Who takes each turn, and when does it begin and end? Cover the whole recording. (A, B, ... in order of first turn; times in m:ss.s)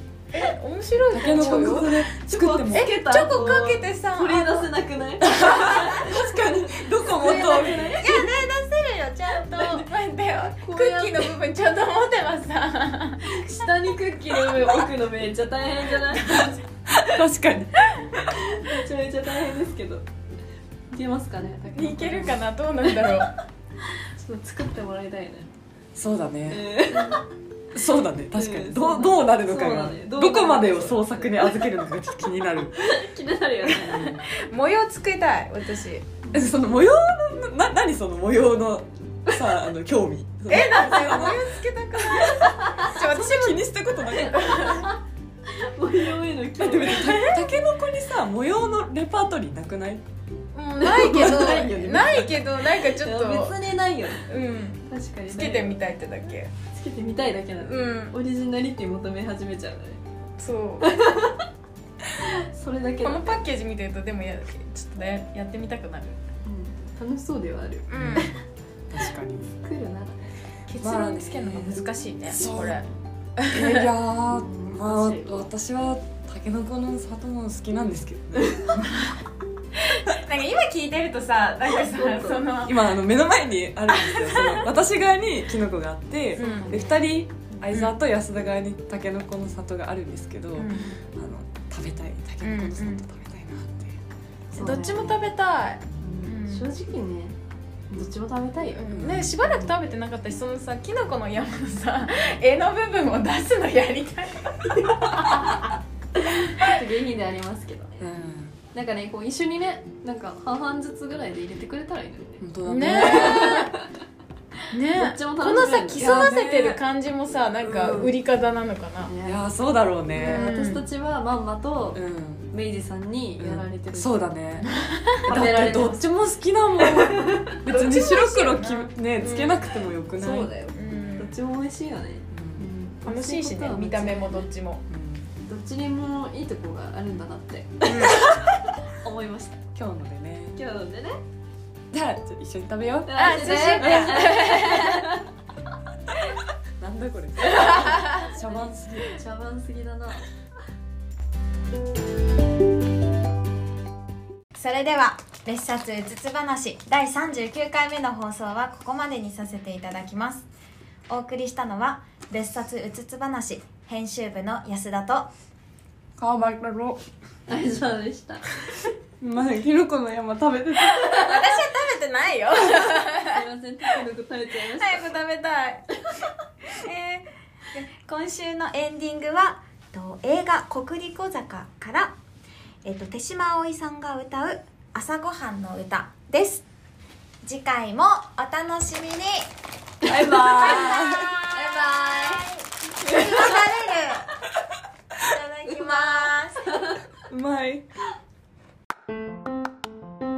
0:00.3-0:01.9 A
0:01.1-0:02.9 B
0:01.1-0:08.3 C
0:02.7-0:04.7 A
0:05.2-0:08.2 B
0:08.0-0:09.0 D
0:08.0-0:13.6 A
0:09.4-0:09.9 C
0:10.6-0:11.4 C
0:13.3-0:16.6 C
0:16.1-0:16.5 A
0:16.9-0:17.7 B
0:18.2-0:20.0 C
0:20.9-0:23.3 C
0:21.7-0:23.3 A
0:24.2-0:25.5 C
0:26.0-0:26.7 B
0:26.5-0:27.3 C
0:27.7-0:32.8 B
0:28.3-0:31.7 C
0:32.8-0:34.2 C
0:33.8-0:34.2 B
0:34.3-0:36.2 A
0:36.3-0:42.4 B
0:40.5-0:43.7 A
0:42.4-0:42.9 C
0:42.9-0:44.8 B
0:44.1-0:47.2 C
0:44.2-0:44.9 A
0:46.6-0:50.0 B
0:47.1-0:47.4 A
0:50.5-0:53.6 A
0:50.8-0:54.3 C
0:51.0-0:52.3 B
0:54.3-0:56.5 A
0:54.9-0:55.8 C
0:56.6-1:00.0 C
0:57.6-0:58.2 A
1:00.4-1:00.9 A
1:00.8-1:01.4 C
1:02.2-1:03.4 C
1:03.0-1:06.2 A
1:06.4-1:08.4 C
1:07.9-1:08.3 A
1:07.9-1:08.3 B
1:08.9-1:09.5 B
1:09.6-1:10.3 C
1:10.7-1:12.9 A
1:10.8-1:12.8 B
1:13.4-1:13.9 A
1:13.5-1:19.0 B
1:14.3-1:15.5 C
1:18.4-1:18.8 C
1:20.1-1:22.8 A
1:21.8-1:22.5 C
1:22.6-1:34.0 B
1:23.9-1:24.7 A
1:26.4-1:27.0 A
1:26.5-1:26.8 C
1:30.6-1:31.0 A
1:32.4-1:33.0 A
1:34.5-1:35.2 C
1:34.6-1:36.7 A
1:36.0-1:37.4 C
1:37.9-1:38.8 C
1:38.7-1:44.8 A
1:38.9-1:39.4 B
1:44.9-1:48.1 C
1:48.0-1:48.6 B
1:48.7-1:53.8 C
1:52.4-1:53.7 B
1:52.6-1:53.7 A
1:54.7-1:59.2 A
1:54.9-1:56.4 C
1:56.0-1:56.8 B
1:57.6-1:58.2 C
1:59.0-1:59.5 C
1:59.2-2:00.8 B
2:00.1-2:04.3 C
2:00.2-2:00.9 A
2:01.9-2:02.5 B
2:03.4-2:04.7 B
2:04.6-2:05.4 A
2:05.3-2:06.0 C
2:05.3-2:10.5 B
2:06.8-2:07.5 C
2:07.7-2:09.9 A
2:10.2-2:14.5 C
2:10.7-2:11.3 A
2:12.3-2:12.6 B
2:13.0-2:14.8 A
2:14.9-2:15.3 B
2:15.5-2:19.6 C
2:17.8-2:18.2 A
2:19.8-2:20.6 B
2:20.6-2:21.2 C
2:21.9-2:24.4 B
2:23.1-2:25.2 C
2:23.2-2:25.0 A
2:26.8-2:29.2 B
2:27.5-2:30.3 C
2:34.6-2:40.5 D
2:41.1-2:45.3 D
2:46.2-2:47.0 B
2:47.5-2:48.5 C
2:49.2-2:51.4 B
2:51.1-2:53.4 A
2:53.2-2:55.1 C
2:54.7-2:55.9 A
2:56.8-3:02.2 D
3:02.8-3:06.7 D
3:07.4-3:09.5 D
3:10.0-3:11.5 B
3:10.1-3:10.7 C
3:10.6-3:14.3 D
3:13.0-3:13.6 C
3:15.2-3:16.7 D
3:15.8-3:16.8 C
3:17.3-3:17.8 B